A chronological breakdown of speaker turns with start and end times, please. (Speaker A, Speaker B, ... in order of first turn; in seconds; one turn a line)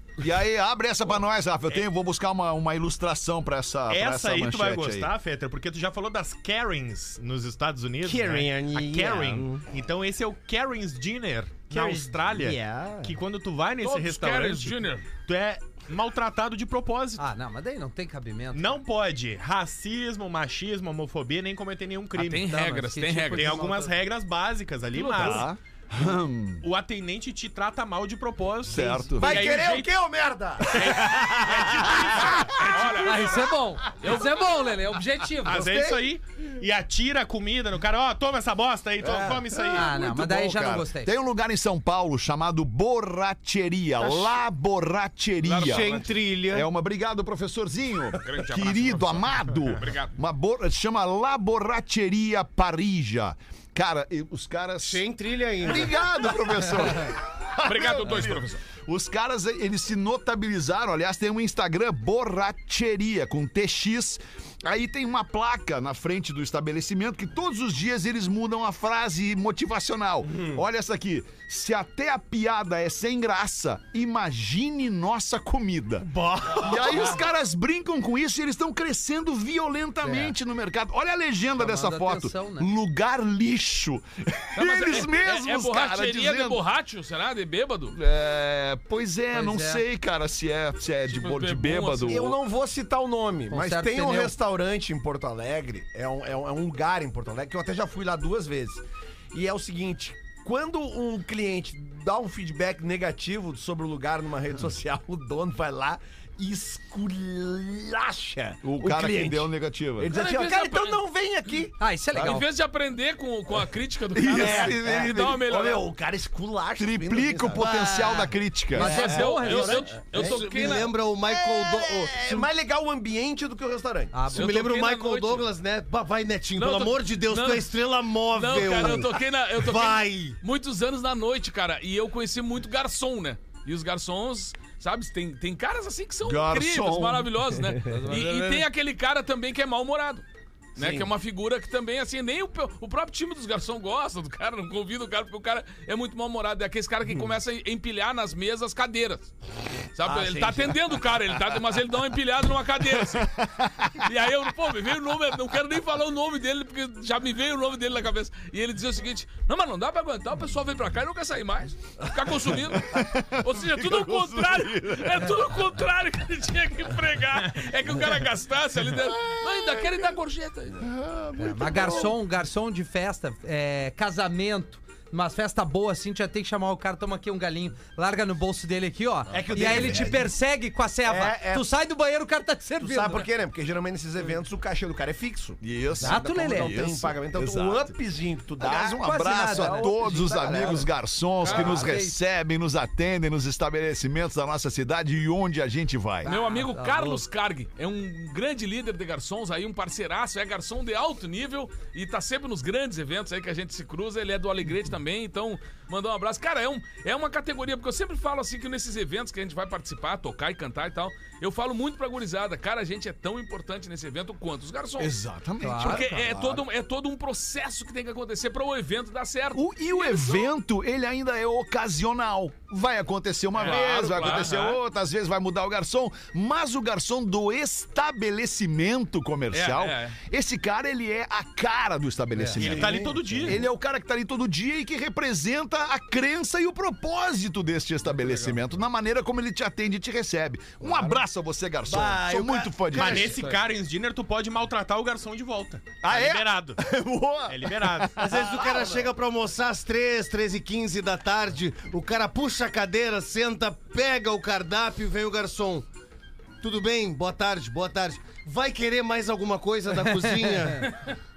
Speaker A: 0.2-5.1
Speaker B: 3.9-17.2
Speaker C: 8.0-9.6
Speaker C: 11.7-13.1
Speaker D: 13.8-15.1
Speaker E: 17.2-18.8
Speaker B: 18.5-22.5
Speaker E: 22.1-23.9
Speaker D: 22.2-23.6
Speaker B: 23.3-25.5
Speaker A: 25.1-26.6
Speaker B: 26.6-29.9
Speaker A: 28.6-29.5
Speaker F: 29.2-32.7
Speaker A: 30.7-31.2
Speaker B: 30.8-32.4
Speaker D: 30.8-31.1
Speaker D: 32.2-33.5
Speaker E: 33.0-35.7
Speaker B: 35.4-39.9
Speaker F: 35.5-36.1
Speaker F: 39.0-39.5
Speaker A: 39.6-55.0
Speaker E: 39.6-41.1
Speaker D: 45.4-46.1
Speaker C: 45.6-46.7
Speaker D: 48.2-50.1
Speaker C: 54.8-56.1
Speaker A: 55.6-86.6
Speaker D: 57.6-58.6
Speaker C: 76.0-77.2
Speaker E: 80.0-80.3
Speaker E: 81.6-82.7
Speaker D: 84.5-88.0
Speaker A: 87.9-92.3
Speaker E: 89.3-89.8
Speaker D: 91.1-92.3
Speaker F: 92.1-112.4
Speaker E: 93.5-94.3
Speaker A: 108.6-110.2
Speaker D: 110.1-111.0
Speaker E: 111.8-112.4
Speaker D: 112.1-115.8
Speaker A: 114.1-115.3
Speaker F: 114.3-124.3
Speaker A: 116.8-119.2
Speaker E: 118.7-120.0
Speaker D: 118.8-120.9
Speaker C: 119.6-122.5
Speaker E: 124.1-124.5
Speaker D: 124.3-125.5
Speaker C: 124.3-130.4
Speaker D: 126.6-127.7
Speaker D: 128.3-140.2
Speaker A: 136.2-137.5
Speaker E: 137.9-138.6
Speaker D: 140.8-149.3
Speaker F: 140.8-141.1
Speaker D: 149.9-170.8
Speaker F: 150.0-150.8
Speaker A: 153.0-154.0
Speaker A: 162.6-165.4
Speaker A: 169.0-170.1
Speaker A: 170.8-172.2
Speaker E: 171.4-183.3
Speaker F: 179.3-180.3
Speaker A: 179.5-180.1
Speaker F: 181.1-181.7
Speaker F: 182.8-190.9
Speaker A: 185.6-187.9
Speaker E: 186.0-186.8
Speaker A: 188.6-196.3
Speaker E: 188.9-190.3
Speaker D: 191.4-191.8
Speaker E: 191.4-192.2
Speaker E: 196.2-197.2
Speaker D: 196.2-215.1
Speaker A: 215.0-216.6
Speaker E: 215.6-216.1
Speaker D: 215.8-220.5
Speaker A: 219.5-243.4
Speaker D: 223.5-224.8
Speaker D: 229.5-230.2
Speaker B: 232.6-233.7
Speaker F: 232.6-233.6
Speaker C: 241.9-243.6
Speaker B: 242.9-246.8
Speaker F: 243.0-243.2
Speaker A: 246.0-248.9
Speaker B: 247.5-248.3
Speaker C: 248.2-255.9
Speaker C: 256.6-260.9
Speaker E: 260.2-260.8